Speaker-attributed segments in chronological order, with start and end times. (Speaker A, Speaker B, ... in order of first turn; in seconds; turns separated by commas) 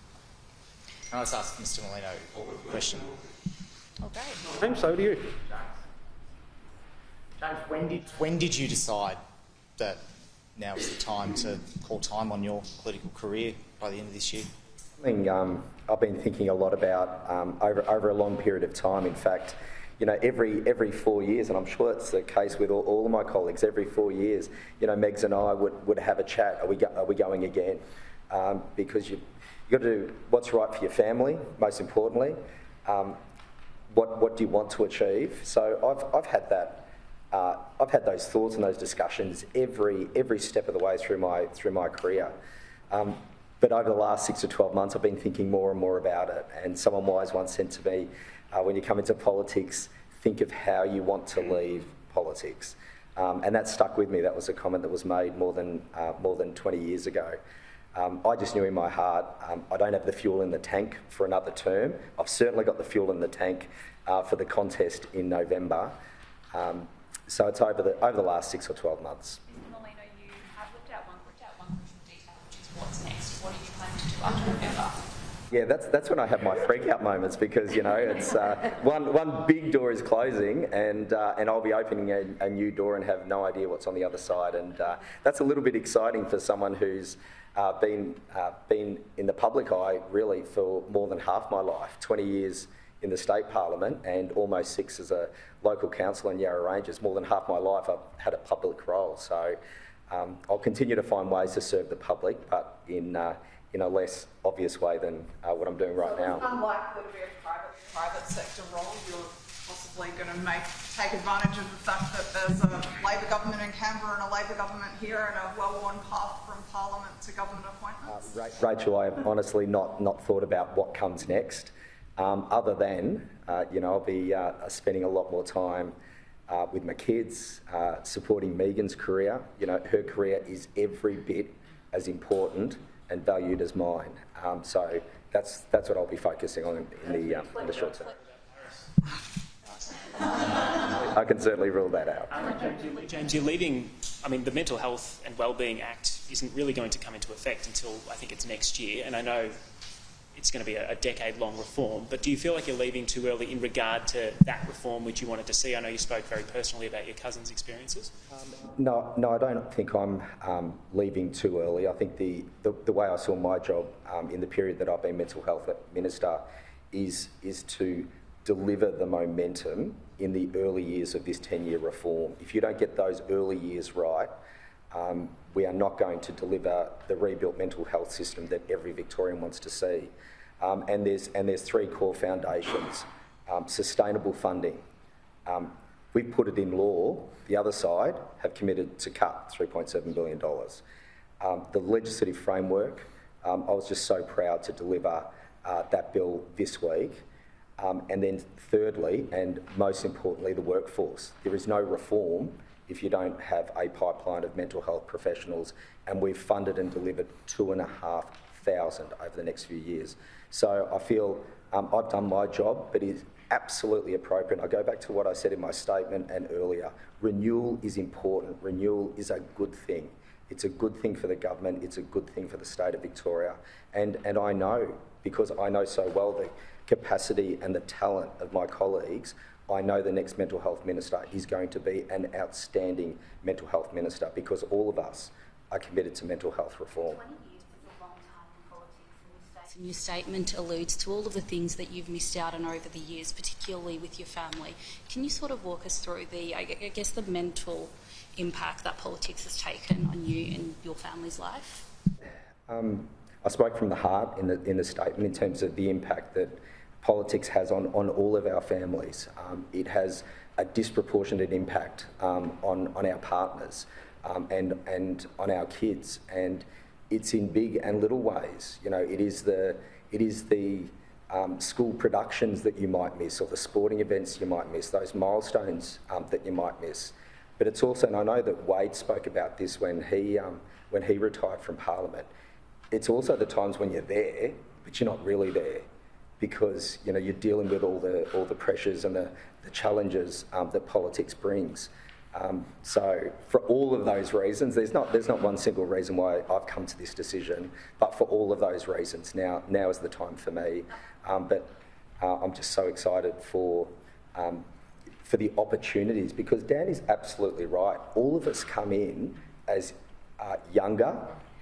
Speaker A: 1.1-3.1, Speaker B: 4.0-4.3, Speaker A: 5.2-5.8, Speaker A: 7.4-9.2, Speaker A: 10.5-14.5, Speaker C: 15.0-33.2, Speaker C: 33.9-42.3, Speaker C: 42.9-57.4, Speaker C: 57.9-66.0, Speaker C: 66.5-69.4, Speaker B: 70.5-73.1, Speaker B: 74.1-74.5, Speaker C: 75.5-99.6, Speaker C: 100.1-106.5, Speaker D: 106.3-118.2, Speaker C: 118.1-126.0, Speaker C: 126.5-138.1, Speaker E: 137.1-138.9, Speaker C: 140.9-142.3, Speaker E: 142.3-149.5, Speaker E: 150.3-158.1, Speaker C: 158.3-174.4, Speaker C: 174.9-184.8, Speaker C: 185.4-190.8, Speaker C: 191.4-197.2, Speaker C: 197.8-237.2, Speaker B: 237.0-251.8, Speaker C: 252.7-282.3, Speaker C: 282.9-285.8, Speaker C: 286.4-304.6, Speaker C: 305.2-311.3